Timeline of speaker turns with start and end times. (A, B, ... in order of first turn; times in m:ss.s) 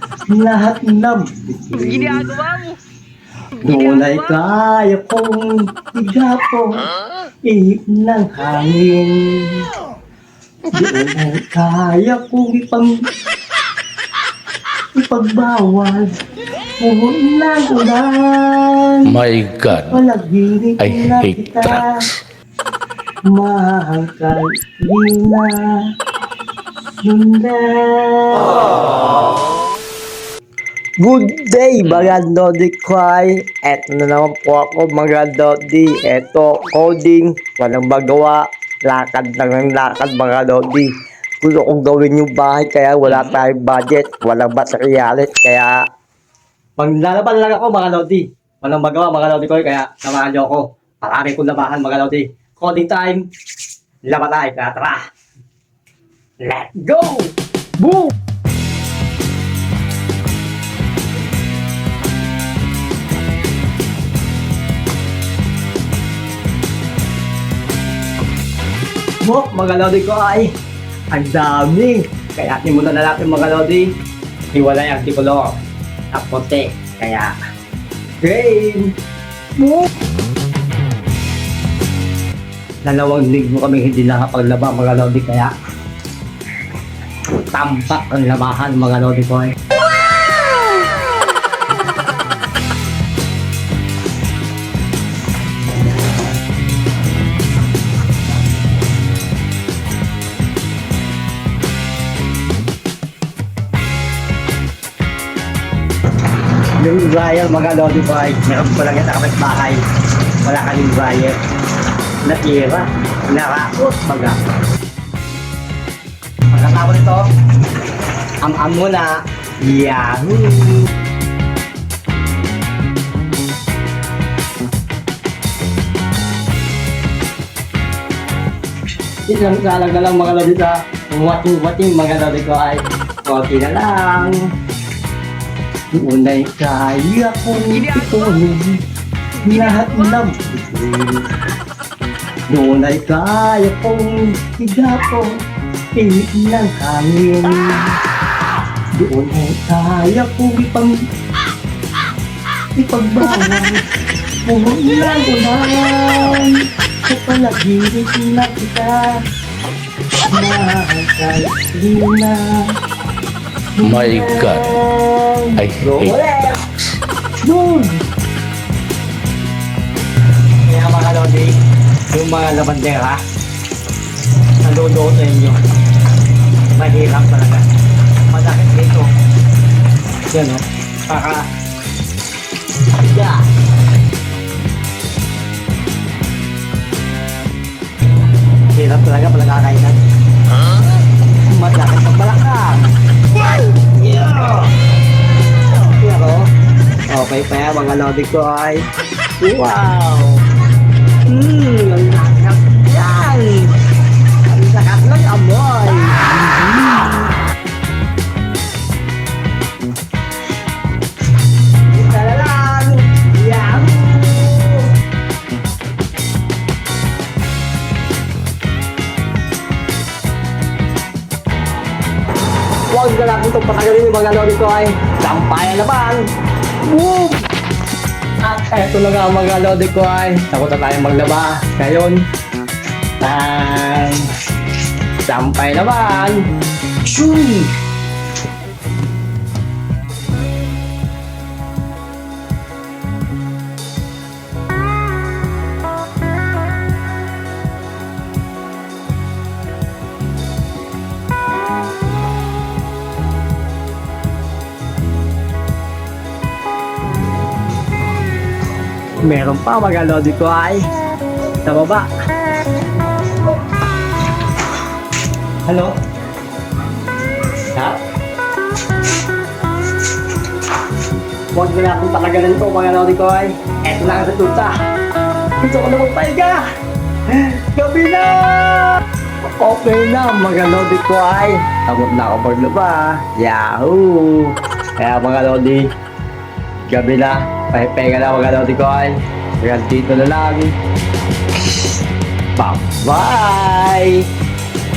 0:00.3-0:02.4 A
0:01.8-0:02.8 B
0:03.6-0:06.9 A
0:03.6-0:04.3 B
0:07.4-0:09.7 A
0:10.7-0:12.9 A
0:14.9-0:16.2 A
0:16.8-0:19.2 A
0:19.0-0:20.0 C
0:19.7-0:22.1 A
0:20.8-0:22.0 C
0:23.2-0:25.9 A
0:27.0-0:29.0 A
0:31.0-0:45.8 A
0:46.8-0:53.2 A
0:54.1-0:55.1 A
0:56.4-0:58.1 A
1:09.2-1:10.5 A
1:11.1-1:13.9 A
1:14.5-1:15.6 A
1:16.1-1:17.4 A
1:18.2-1:18.9 A
1:19.6-1:19.9 A
1:22.8-1:25.5 A
1:27.4-1:29.6 A
1:46.8-1:49.8 A
1:50.4-1:51.4 A
1:52.2-1:54.4 A
1:56.5-1:57.3 A
1:58.4-2:00.9 A
2:09.3-2:14.4 A
2:15.9-2:18.8 A
2:17.6-2:18.4 B
2:19.4-2:20.3 B
2:19.4-2:21.4 A
2:22.5-2:25.3 A
2:25.9-2:28.0 A
2:29.0-2:31.0 A
2:32.8-2:33.8 A
2:34.4-2:39.2 A
2:40.3-2:42.8 A
2:43.8-2:46.6 A
2:43.8-2:44.8 C
2:45.6-2:46.2 C
2:47.4-2:48.0 A
2:50.6-2:51.6 A
2:52.1-2:53.2 A
2:54.6-2:55.6 A
2:56.7-2:57.7 A
2:58.3-2:59.1 A
3:00.3-3:01.5 A
3:02.9-3:03.5 A
3:08.7-3:10.0 A
3:11.5-3:14.7 A
3:15.7-3:16.5 A
3:17.1-3:18.9 A
3:19.4-3:20.4 A
3:21.2-3:27.2 A
3:31.8-3:34.9 A
3:42.9-3:46.2 A
3:46.8-3:47.5 A
3:48.4-3:52.2 A
3:53.2-3:54.3 A
3:55.2-3:56.4 A
3:57.0-3:57.7 A
4:19.2-4:20.9 A
4:21.6-4:22.1 A
4:25.7-4:26.0 A
4:27.7-4:28.0 A
4:31.5-4:34.8 A
4:35.6-4:36.7 A
4:37.3-4:39.0 A
4:39.6-4:45.9 A
4:46.9-4:50.8 A
4:52.6-4:54.3 A